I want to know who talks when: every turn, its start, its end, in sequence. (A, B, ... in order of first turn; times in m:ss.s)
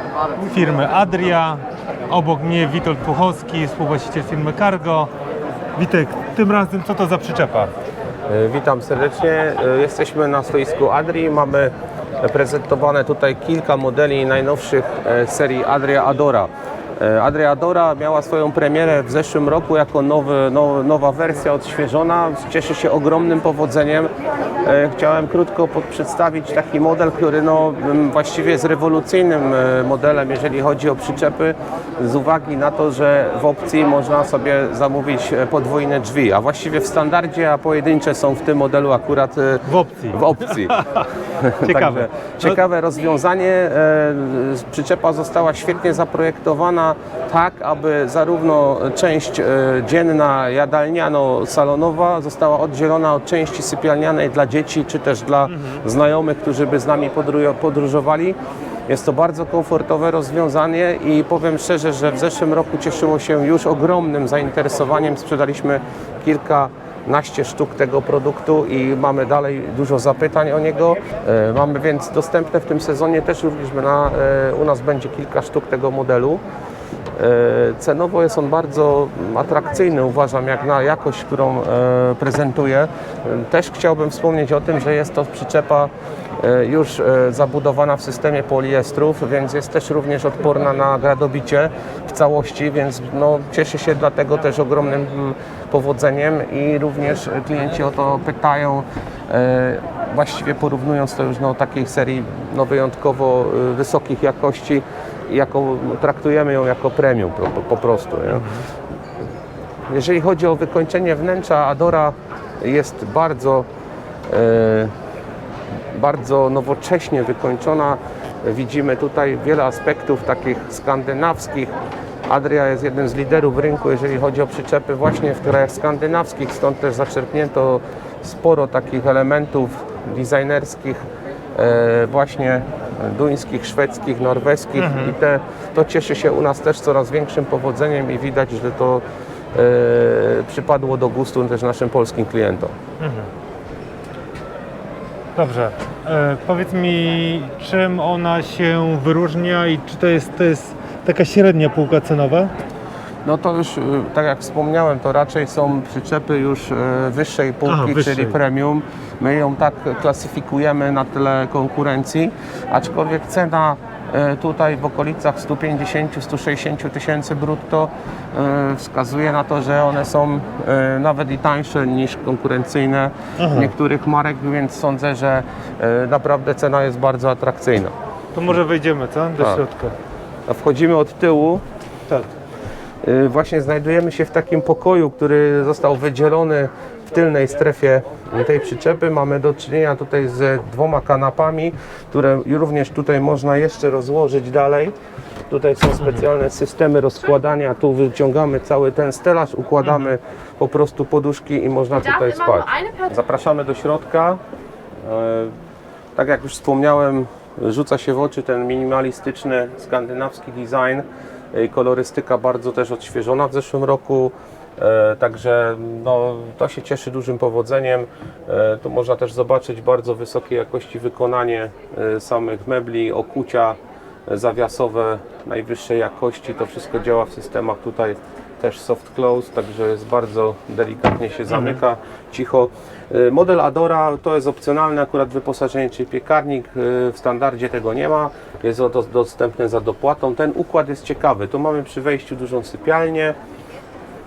0:00.4-0:05.1 A
0:05.8-0:07.7 A
0:08.3-0:24.1 B
0:24.6-1:16.4 B
0:39.6-0:41.0 A
0:41.6-0:42.6 A
0:55.5-0:55.8 A
1:17.1-1:48.5 B
1:48.3-1:48.7 A
1:49.9-1:53.7 B
1:54.3-1:54.9 B
1:55.9-2:01.7 B
2:02.2-2:11.0 B
2:11.5-2:22.8 B
2:14.8-2:15.2 A
2:23.0-2:23.3 A
2:25.3-2:32.5 A
2:33.2-2:57.9 B
2:37.6-2:38.4 A
2:53.4-2:53.7 A
2:58.3-2:59.9 A
3:00.5-3:01.6 B
3:02.1-3:02.3 A
3:03.0-3:14.9 B
3:15.5-3:24.4 B
3:19.8-3:20.1 A
3:25.0-3:25.6 B
3:26.2-4:03.4 B
3:51.5-3:51.8 A